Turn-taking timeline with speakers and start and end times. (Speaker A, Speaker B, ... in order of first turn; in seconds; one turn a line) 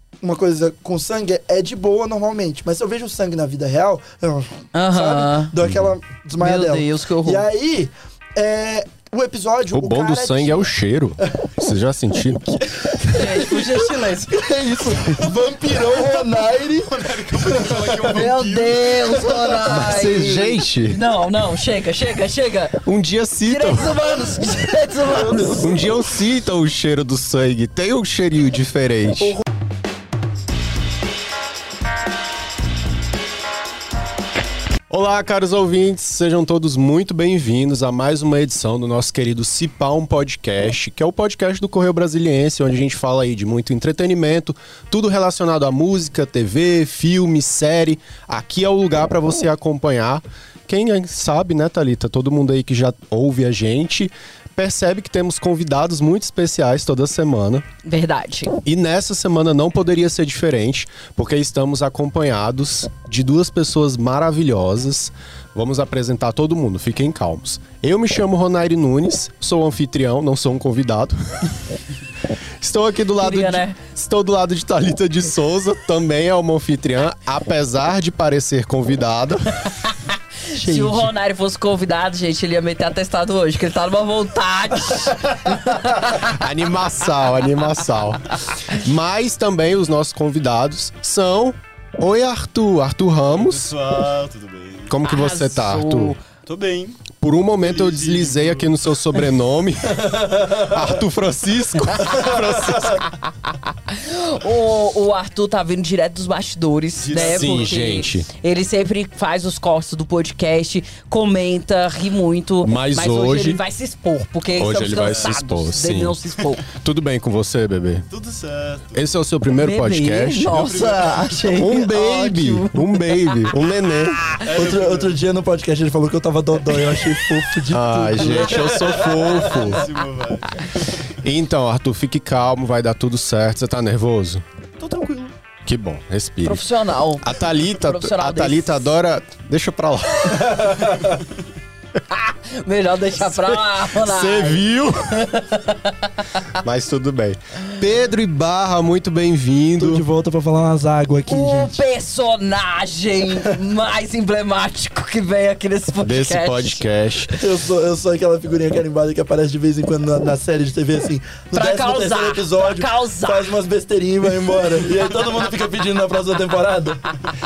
Speaker A: 0.2-10.7
Speaker B: 4.7-5.5
Speaker C: 5.6-5.9
Speaker B: 6.4-7.4
Speaker C: 9.7-12.6
Speaker A: 12.9-18.3
Speaker B: 13.1-14.5
Speaker D: 15.8-19.4
Speaker B: 18.1-22.8
Speaker A: 19.2-19.7
Speaker C: 19.6-21.0
Speaker C: 22.8-24.1
Speaker B: 23.4-25.8
Speaker C: 25.5-29.4
Speaker C: 34.9-57.6
Speaker B: 57.8-58.5
Speaker C: 58.6-71.5
Speaker C: 72.6-79.6
Speaker B: 73.2-73.8
Speaker B: 80.5-86.3
Speaker A: 80.5-81.1
Speaker C: 86.2-93.7
Speaker D: 93.3-95.0
Speaker C: 94.9-96.2
Speaker B: 95.0-96.2
Speaker D: 96.5-98.7
Speaker C: 97.2-103.1
Speaker B: 103.9-116.7
Speaker D: 107.0-108.0
Speaker C: 107.1-108.3
Speaker C: 112.6-113.6
Speaker C: 114.5-116.2
Speaker D: 115.0-115.6
Speaker C: 116.7-118.0
Speaker D: 118.1-119.1
Speaker C: 118.9-120.6
Speaker B: 119.6-123.3
Speaker D: 120.5-121.5
Speaker C: 121.5-124.3
Speaker D: 124.4-125.2
Speaker A: 124.4-129.8
Speaker C: 127.7-129.9
Speaker D: 128.8-131.1
Speaker C: 131.2-134.4
Speaker D: 134.8-135.3
Speaker C: 135.6-136.7
Speaker B: 136.4-138.8
Speaker C: 137.2-140.9
Speaker B: 142.1-146.5
Speaker C: 143.2-145.3
Speaker C: 146.6-150.0
Speaker A: 149.8-151.8
Speaker B: 151.3-157.4
Speaker C: 156.0-157.3
Speaker A: 157.3-167.0
Speaker B: 161.5-163.5